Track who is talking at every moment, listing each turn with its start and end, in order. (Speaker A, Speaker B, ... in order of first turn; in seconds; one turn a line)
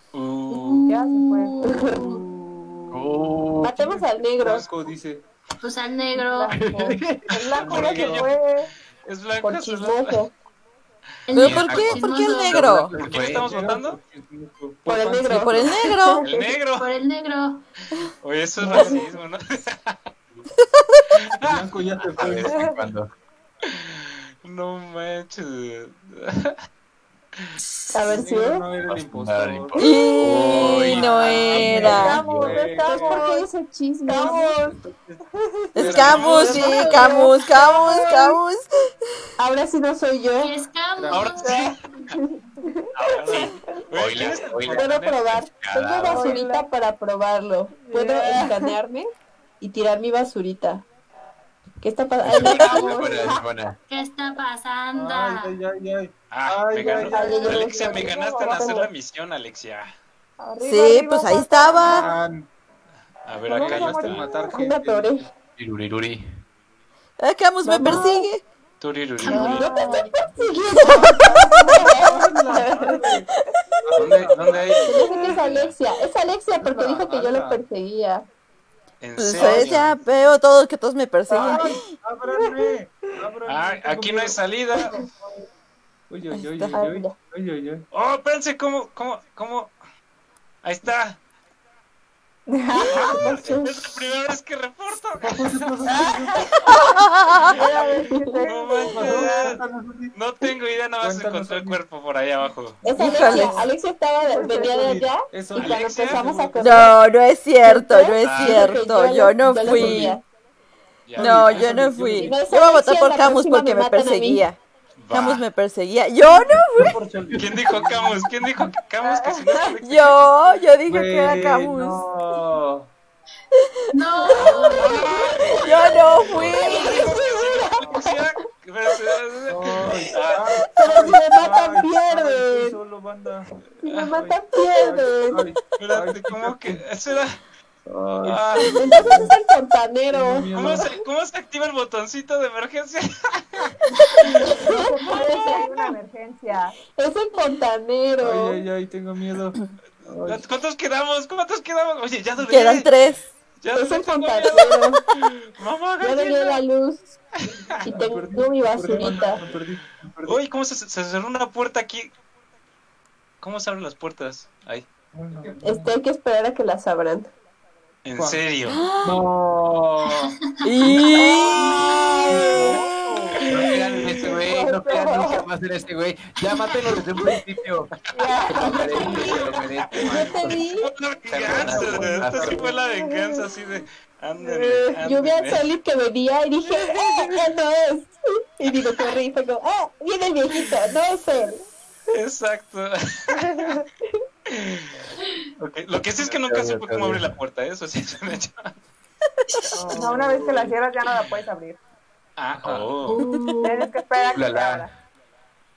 Speaker A: 0.1-0.9
Speaker B: 0.5-2.2
Speaker C: 0.9-1.7
Speaker D: 1.6-2.0
Speaker E: 1.9-5.3
Speaker F: 2.9-3.8
Speaker D: 3.6-4.7
Speaker B: 5.6-6.6
Speaker C: 6.1-8.7
Speaker F: 6.5-7.3
Speaker A: 7.6-8.4
Speaker E: 7.7-8.3
Speaker A: 9.0-10.2
Speaker D: 9.4-10.3
Speaker B: 11.3-12.7
Speaker G: 11.3-12.9
Speaker F: 11.4-13.5
Speaker E: 12.7-15.8
Speaker A: 13.0-14.0
Speaker D: 14.9-16.3
Speaker G: 15.3-16.3
Speaker A: 16.2-16.9
Speaker B: 16.8-17.7
Speaker A: 18.2-20.0
Speaker E: 18.6-19.0
Speaker C: 18.7-19.0
Speaker G: 20.6-21.0
Speaker A: 21.3-21.7
Speaker E: 21.4-22.7
Speaker F: 22.1-23.1
Speaker A: 23.7-26.6
Speaker D: 27.9-28.6
Speaker E: 28.1-29.9
Speaker F: 28.9-32.6
Speaker G: 29.8-32.2
Speaker E: 30.5-33.3
Speaker C: 31.4-33.5
Speaker D: 32.1-34.6
Speaker C: 34.1-34.7
Speaker E: 34.1-35.2
Speaker C: 35.4-35.7
Speaker G: 35.8-38.9
Speaker E: 35.8-36.3
Speaker A: 35.9-36.9
Speaker D: 36.0-38.4
Speaker D: 39.4-40.6
Speaker B: 40.4-41.7
Speaker E: 41.0-41.6
Speaker A: 41.1-41.8
Speaker D: 42.1-43.5
Speaker A: 43.0-45.2
Speaker F: 43.9-46.4
Speaker D: 44.7-49.1
Speaker C: 46.1-46.7
Speaker C: 47.9-48.7
Speaker D: 49.6-50.9
Speaker D: 51.8-53.4
Speaker F: 52.2-53.8
Speaker B: 53.9-55.6
Speaker E: 54.9-57.5
Speaker A: 56.3-60.0
Speaker C: 56.9-58.8
Speaker D: 57.1-58.9
Speaker C: 60.4-62.1
Speaker G: 60.6-62.1
Speaker E: 61.8-62.5
Speaker A: 63.3-64.3
Speaker E: 63.5-65.3
Speaker C: 63.5-64.5
Speaker D: 64.5-65.3
Speaker F: 65.6-66.3
Speaker G: 67.2-68.4
Speaker D: 67.6-68.3
Speaker A: 68.8-69.9
Speaker B: 69.2-70.3
Speaker D: 69.3-73.0
Speaker E: 70.2-73.3
Speaker C: 71.2-73.0
Speaker E: 73.8-75.1
Speaker A: 73.9-75.8
Speaker D: 74.8-78.2
Speaker C: 75.1-75.4
Speaker E: 76.6-77.6
Speaker A: 79.0-80.0
Speaker G: 79.2-81.9
Speaker E: 81.3-85.2
Speaker A: 83.5-85.0
Speaker E: 86.1-87.9
Speaker G: 86.4-86.8
Speaker D: 86.7-87.1
Speaker A: 87.9-89.8
Speaker A: 90.6-91.2
Speaker C: 92.5-93.2
Speaker D: 92.8-93.9
Speaker A: 92.9-96.0
Speaker E: 95.2-96.5
Speaker C: 96.0-96.9
Speaker G: 97.0-97.5
Speaker A: 97.5-97.9
Speaker C: 97.5-99.6
Speaker A: 98.4-99.6
Speaker E: 98.8-100.1
Speaker A: 100.1-102.8
Speaker E: 101.0-101.8
Speaker D: 102.8-107.0
Speaker C: 102.9-103.7
Speaker G: 102.9-103.7
Speaker C: 104.2-105.1
Speaker E: 104.5-106.9
Speaker A: 105.5-106.3
Speaker G: 106.6-110.2
Speaker D: 107.6-110.2
Speaker A: 108.2-108.9
Speaker E: 109.7-110.2
Speaker A: 111.1-111.8
Speaker E: 111.2-112.4
Speaker G: 111.2-114.6
Speaker D: 112.2-114.5
Speaker A: 115.0-115.5
Speaker G: 115.1-117.0
Speaker E: 116.8-118.3
Speaker A: 117.3-120.6
Speaker C: 119.0-119.6
Speaker G: 119.8-122.1
Speaker E: 120.9-122.9
Speaker B: 123.9-125.4
Speaker D: 124.3-125.8
Speaker A: 124.5-130.7
Speaker G: 125.6-126.9
Speaker D: 126.5-128.2
Speaker E: 127.8-128.1
Speaker E: 129.5-133.5
Speaker D: 130.7-132.8
Speaker D: 133.8-135.5
Speaker A: 133.9-134.1
Speaker E: 134.1-136.8
Speaker A: 135.8-137.4
Speaker E: 137.9-139.3
Speaker A: 138.2-139.0
Speaker D: 138.7-140.5
Speaker E: 140.1-140.9
Speaker A: 140.5-143.7
Speaker C: 144.3-146.8
Speaker D: 144.4-145.9
Speaker D: 146.9-148.6
Speaker E: 148.2-150.5
Speaker A: 150.2-152.9
Speaker G: 152.4-153.3
Speaker A: 153.6-156.6
Speaker D: 153.7-155.0
Speaker D: 156.0-157.2
Speaker A: 157.4-157.9
Speaker D: 157.8-159.4
Speaker E: 157.9-160.4
Speaker A: 160.2-162.1
Speaker A: 163.4-164.9
Speaker E: 165.1-165.9
Speaker D: 165.6-167.3
Speaker A: 168.1-168.8
Speaker E: 168.2-168.4
Speaker G: 168.7-169.2
Speaker E: 169.0-171.2
Speaker G: 170.6-171.8
Speaker B: 170.8-172.0
Speaker D: 171.2-172.8
Speaker E: 172.3-173.4
Speaker A: 173.3-174.4
Speaker F: 173.5-177.9
Speaker C: 174.3-175.5
Speaker C: 178.1-179.3
Speaker F: 178.5-180.6
Speaker D: 178.6-179.4
Speaker A: 179.0-179.3
Speaker A: 180.0-185.7
Speaker D: 180.1-180.9
Speaker F: 181.3-182.7
Speaker E: 181.7-182.5
Speaker C: 182.8-183.2
Speaker C: 184.4-184.9
Speaker D: 185.0-191.6
Speaker A: 192.1-193.8
Speaker A: 194.5-198.7
Speaker F: 196.2-197.3
Speaker A: 199.8-200.2
Speaker E: 199.8-200.7
Speaker C: 199.9-201.8
Speaker A: 202.4-203.2
Speaker E: 202.6-202.9
Speaker B: 203.1-203.9
Speaker C: 203.6-204.9
Speaker F: 204.3-204.9